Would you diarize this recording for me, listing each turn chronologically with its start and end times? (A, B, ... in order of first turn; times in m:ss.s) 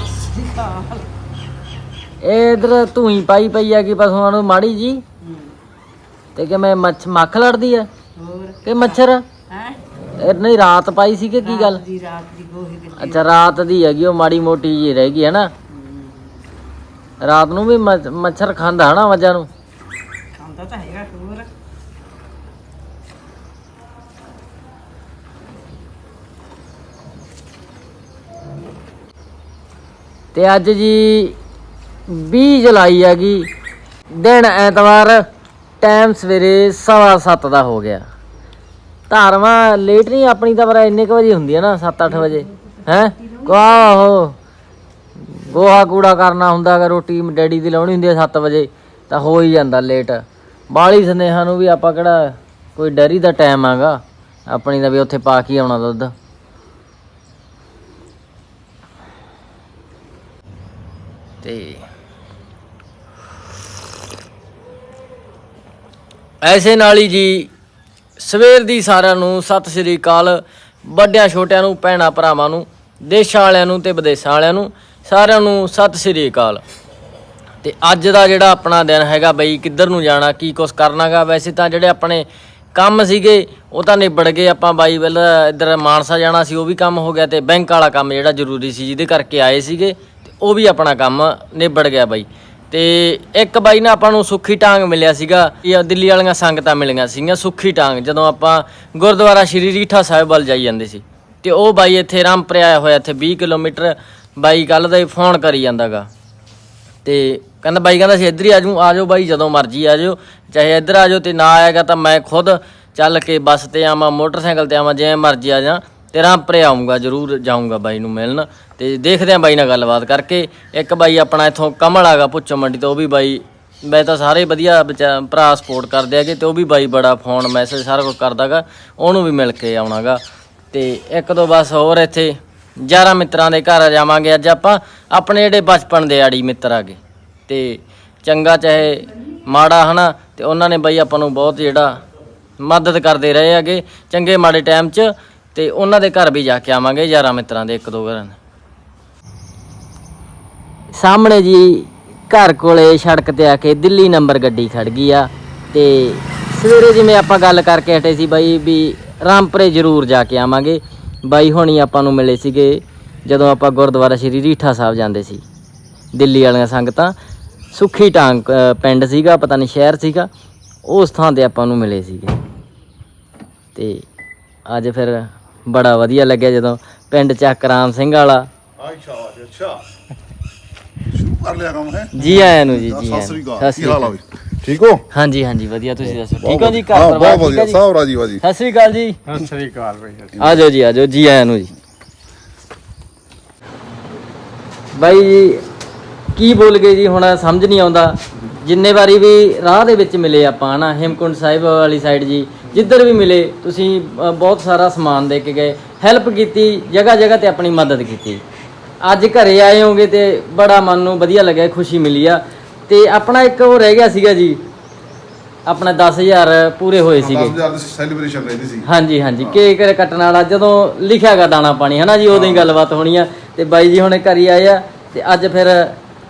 0:00.4-0:01.0 A
0:02.2-0:05.0 B
0:06.4-0:07.9 B
0:08.2-0:08.7 A
0:08.6-0:09.2 B
0:10.2-0:11.8 B
0:11.4-0:13.2 A
0:13.0-0:15.5 B
0:17.2-0:19.5 B
0:20.4-0:21.4 A
0:30.3-0:31.4 B
0:32.1-0:33.5 B
0:34.1-0:35.2 B
0:35.8-0:38.0 B
0:39.1-0:44.4 B
0:45.3-0:56.1 B
1:01.4-1:01.8 B
1:06.4-1:07.5 B
1:08.2-1:16.6 B
1:17.6-1:46.1 B
1:47.0-2:10.2 B
2:10.7-2:22.0 B
2:22.6-2:28.4 B
2:30.9-2:45.4 B
2:46.1-2:47.1 B
2:47.7-2:50.3 B
2:50.8-2:52.3 B
2:53.7-2:54.0 B
2:54.7-2:58.5 B
2:58.8-2:59.8 C
3:01.1-3:05.0 C
3:02.2-3:04.1 B
3:05.1-3:07.8 B
3:06.4-3:08.4 C
3:08.4-3:09.2 B
3:10.2-3:10.6 C
3:10.4-3:11.7 B
3:14.9-3:15.6 B
3:16.3-3:28.4 B
3:29.0-3:34.6 B
3:35.6-3:37.6 B
3:37.2-3:38.9 C
3:38.8-3:45.9 B
3:42.3-3:42.7 C